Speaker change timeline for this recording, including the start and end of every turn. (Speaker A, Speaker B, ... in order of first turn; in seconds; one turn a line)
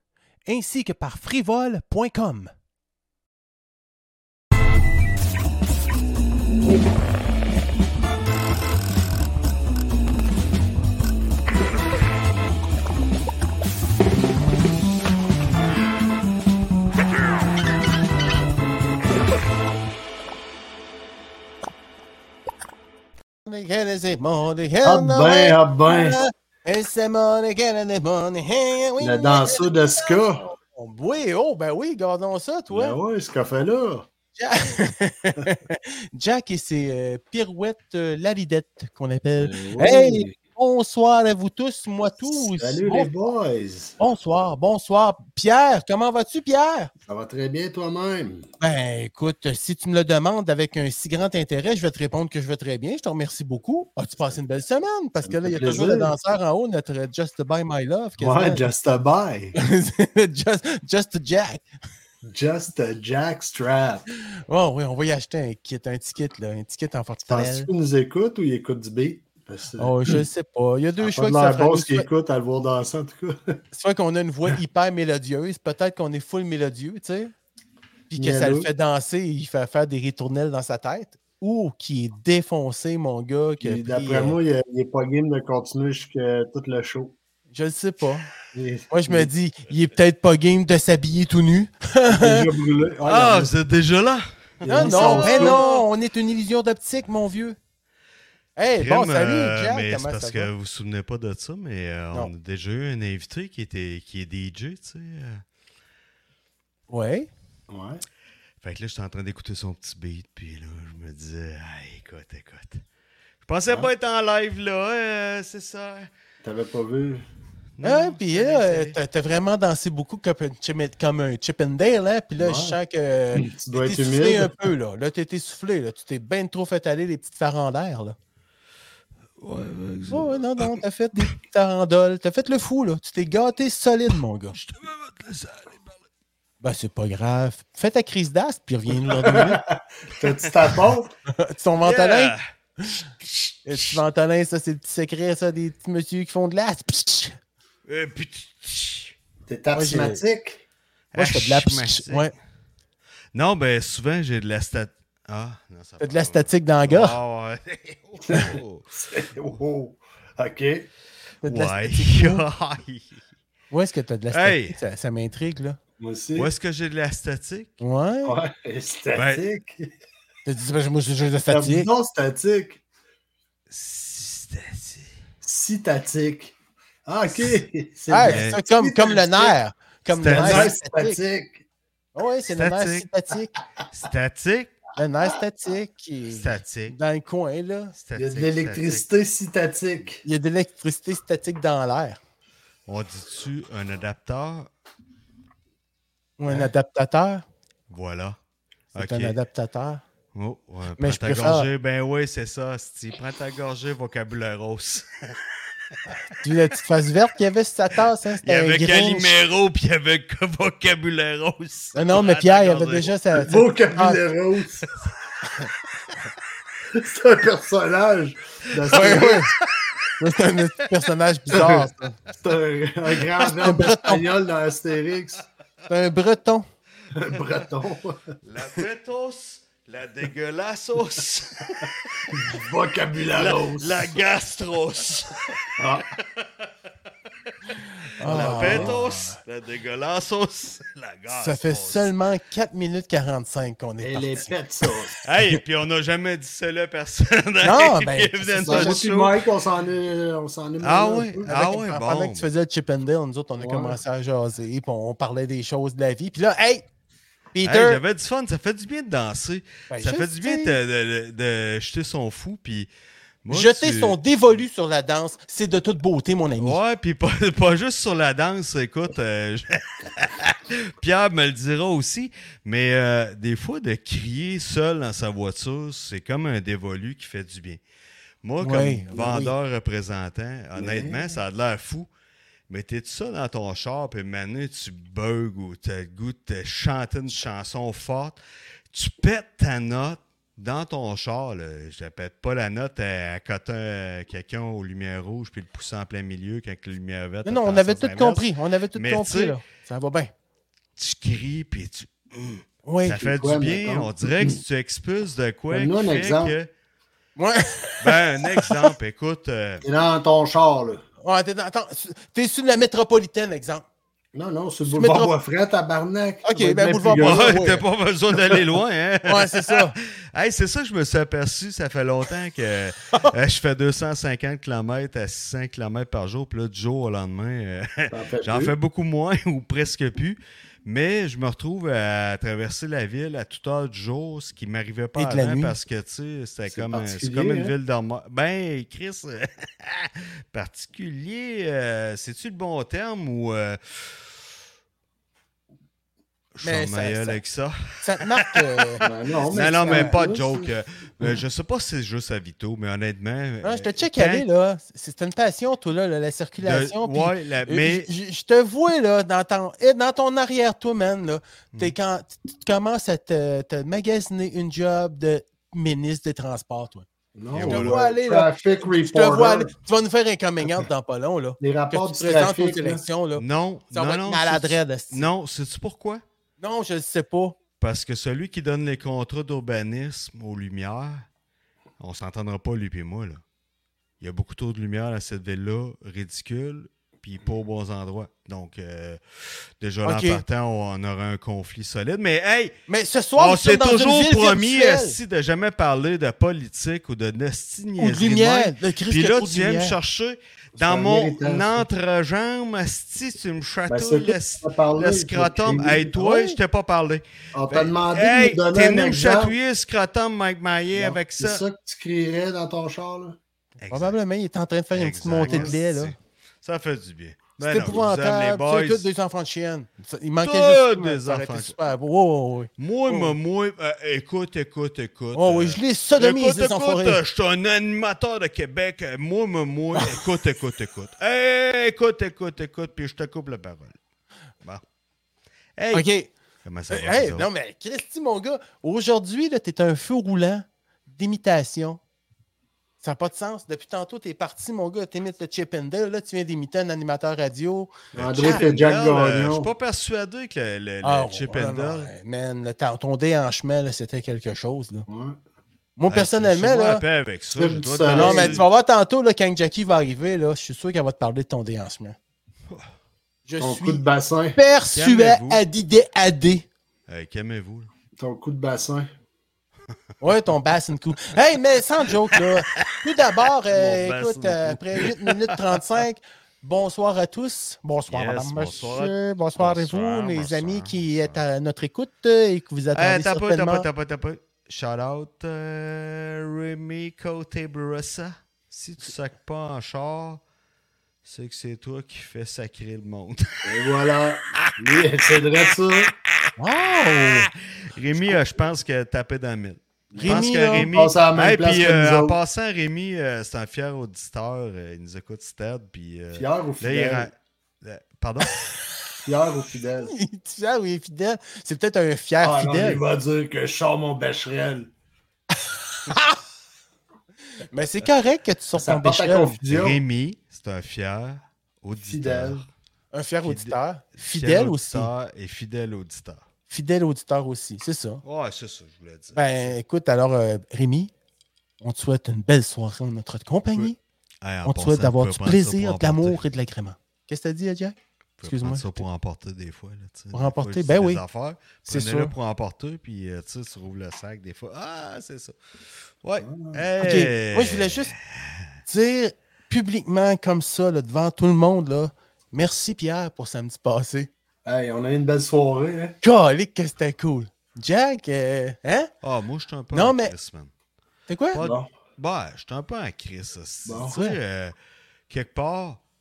Speaker A: 0.5-2.5
Speaker A: 23.5-33.0
Speaker B: 24.8-26.2
Speaker B: 29.0-30.4
Speaker B: 32.7-34.1
Speaker A: 34.4-43.1
Speaker B: 39.4-40.4
Speaker B: 42.3-44.0
Speaker A: 44.0-46.9
Speaker B: 47.1-48.5
Speaker A: 48.6-58.6
Speaker B: 55.2-56.1
Speaker B: 58.2-59.5
Speaker A: 59.5-61.6
Speaker B: 62.3-64.0
Speaker A: 64.5-67.7
Speaker B: 67.3-70.2
Speaker A: 69.8-72.1
Speaker B: 71.0-73.6
Speaker A: 73.7-77.3
Speaker A: 78.1-84.4
Speaker B: 78.2-78.7
Speaker B: 83.6-87.2
Speaker A: 87.5-88.3
Speaker B: 88.5-89.3
Speaker A: 88.9-92.5
Speaker B: 92.1-93.5
Speaker C: 93.0-95.8
Speaker B: 94.6-95.6
Speaker A: 94.7-97.6
Speaker A: 98.6-100.5
Speaker C: 98.8-105.4
Speaker A: 106.9-107.3
Speaker B: 107.7-108.0
Speaker C: 108.6-112.8
Speaker C: 113.5-116.1
Speaker B: 116.4-117.2
Speaker C: 117.8-119.0
Speaker A: 117.8-128.2
Speaker B: 122.4-122.8
Speaker B: 123.3-124.7
Speaker C: 129.4-130.8
Speaker A: 130.1-134.6
Speaker C: 134.6-135.9
Speaker A: 136.6-139.6
Speaker B: 139.2-141.1
Speaker C: 140.2-140.5
Speaker A: 141.3-143.0
Speaker C: 141.8-142.4
Speaker C: 143.2-144.0
Speaker A: 143.7-147.3
Speaker C: 147.9-149.1
Speaker B: 149.5-150.6
Speaker A: 149.7-150.2
Speaker C: 151.1-152.3
Speaker A: 151.2-152.3
Speaker C: 153.3-158.9
Speaker A: 156.0-157.2
Speaker B: 158.3-160.9
Speaker A: 161.4-162.4
Speaker C: 161.4-163.2
Speaker A: 163.7-165.8
Speaker C: 164.3-164.8
Speaker B: 166.0-166.5
Speaker C: 166.3-167.8
Speaker A: 167.8-168.4
Speaker B: 168.2-169.9
Speaker C: 169.2-169.4
Speaker A: 170.4-171.9
Speaker B: 171.5-172.8
Speaker C: 173.7-175.1
Speaker B: 175.4-176.6
Speaker B: 177.1-179.5
Speaker A: 178.1-181.2
Speaker C: 178.3-178.6
Speaker C: 180.1-180.7
Speaker B: 180.3-181.7
Speaker A: 182.2-183.5
Speaker C: 182.5-183.1
Speaker C: 183.9-184.8
Speaker A: 185.0-187.9
Speaker C: 186.3-187.0
Speaker C: 188.0-189.1
Speaker B: 188.2-190.2
Speaker A: 190.2-192.2
Speaker C: 192.9-194.7
Speaker A: 196.4-197.4
Speaker C: 197.9-198.4
Speaker A: 198.9-200.0
Speaker C: 199.0-199.3
Speaker C: 200.3-205.4
Speaker A: 201.0-201.7
Speaker A: 206.4-209.3
Speaker C: 208.4-213.1
Speaker A: 211.9-214.2
Speaker B: 213.3-214.8
Speaker B: 216.9-219.5
Speaker C: 218.8-219.2
Speaker A: 218.9-219.5
Speaker A: 220.2-222.2
Speaker B: 221.5-221.9
Speaker B: 222.4-225.5
Speaker A: 223.4-224.2
Speaker A: 225.9-226.7
Speaker B: 227.1-228.2
Speaker C: 228.4-232.3
Speaker B: 232.3-234.1
Speaker C: 233.3-235.5
Speaker B: 235.8-236.1
Speaker C: 236.2-236.5
Speaker A: 238.2-239.4
Speaker B: 238.2-239.1
Speaker C: 238.2-242.1
Speaker A: 241.3-244.5
Speaker B: 244.0-245.1
Speaker C: 245.2-249.4
Speaker A: 247.6-249.0
Speaker B: 248.7-251.5
Speaker C: 250.8-252.5
Speaker A: 251.5-256.9
Speaker B: 253.6-254.0
Speaker A: 257.5-258.0
Speaker C: 257.6-262.9
Speaker A: 259.9-260.8
Speaker C: 263.4-264.2
Speaker A: 263.5-266.8
Speaker C: 266.6-277.8
Speaker C: 278.4-282.1
Speaker A: 278.6-279.5
Speaker B: 280.8-281.2
Speaker C: 282.7-288.4
Speaker C: 288.9-299.6
Speaker A: 297.4-300.3
Speaker C: 301.0-306.7
Speaker A: 302.9-303.2
Speaker B: 303.1-304.6
Speaker B: 305.7-306.6
Speaker A: 307.4-308.9
Speaker C: 308.0-309.9
Speaker B: 309.8-311.0
Speaker A: 311.2-313.9
Speaker B: 314.3-317.6
Speaker A: 314.9-315.3
Speaker A: 316.4-317.8
Speaker C: 317.1-344.2
Speaker A: 319.3-319.9
Speaker B: 328.1-328.7
Speaker A: 335.2-335.8
Speaker B: 336.7-337.7
Speaker C: 346.6-348.6
Speaker A: 346.6-347.4
Speaker A: 348.0-349.1
Speaker B: 349.0-350.7
Speaker C: 349.5-354.4
Speaker A: 349.9-350.2
Speaker A: 353.6-367.1
Speaker C: 356.6-358.1
Speaker B: 367.4-369.7
Speaker C: 367.5-368.0
Speaker A: 367.7-375.3
Speaker B: 371.6-373.0
Speaker C: 373.4-376.2
Speaker A: 376.6-377.6
Speaker C: 377.8-381.3
Speaker C: 382.0-383.4
Speaker C: 384.2-389.2
Speaker C: 389.8-392.8
Speaker A: 390.0-390.4
Speaker A: 392.9-395.2
Speaker C: 393.4-411.6
Speaker A: 398.0-400.0
Speaker B: 400.8-401.9
Speaker B: 403.9-406.1
Speaker A: 406.1-406.6
Speaker B: 407.5-409.6
Speaker B: 410.9-413.4
Speaker C: 413.8-414.1
Speaker A: 413.9-416.1
Speaker C: 414.9-419.1
Speaker B: 415.4-415.7
Speaker A: 417.6-423.4
Speaker C: 420.4-421.8
Speaker C: 422.8-434.0
Speaker A: 425.4-427.2
Speaker A: 429.9-430.2
Speaker C: 435.8-436.1
Speaker A: 435.9-436.3
Speaker C: 436.6-437.5
Speaker A: 436.9-442.0
Speaker A: 443.0-448.7
Speaker B: 448.1-449.7
Speaker C: 448.1-452.1
Speaker A: 451.0-455.1
Speaker B: 455.1-455.4
Speaker A: 456.0-457.0
Speaker C: 456.1-458.7
Speaker B: 457.6-458.6
Speaker A: 458.1-462.2
Speaker A: 463.5-464.0
Speaker B: 463.6-464.6
Speaker A: 464.6-466.7
Speaker C: 464.9-465.6
Speaker C: 467.1-467.9
Speaker B: 468.2-469.1
Speaker A: 470.2-483.9
Speaker C: 473.7-475.6
Speaker C: 478.1-481.4
Speaker C: 482.9-490.4
Speaker C: 491.2-493.8
Speaker B: 493.6-496.1
Speaker A: 496.6-497.5
Speaker C: 497.1-508.7
Speaker B: 500.1-502.4
Speaker A: 500.2-500.9
Speaker B: 506.3-507.3
Speaker B: 509.2-510.1
Speaker A: 510.1-513.0
Speaker B: 512.4-514.9
Speaker A: 516.1-516.4
Speaker A: 517.7-519.6
Speaker B: 518.8-520.0
Speaker C: 519.7-522.7
Speaker B: 522.0-522.6
Speaker A: 523.1-525.1
Speaker C: 523.4-526.4
Speaker A: 526.7-528.2
Speaker C: 528.2-529.7
Speaker A: 529.4-531.1
Speaker A: 531.8-534.0
Speaker C: 534.4-536.4
Speaker A: 534.6-539.1
Speaker C: 538.4-545.5
Speaker A: 540.3-541.2
Speaker A: 541.9-542.3
Speaker C: 546.2-548.7
Speaker B: 546.4-546.8
Speaker A: 547.0-548.1
Speaker A: 548.9-554.3
Speaker B: 554.6-556.2
Speaker A: 556.2-559.1
Speaker C: 559.2-560.7
Speaker A: 559.9-560.3
Speaker A: 561.3-561.6
Speaker C: 561.5-564.7
Speaker B: 561.6-561.9
Speaker B: 563.9-564.1
Speaker A: 564.1-564.4
Speaker C: 565.3-566.0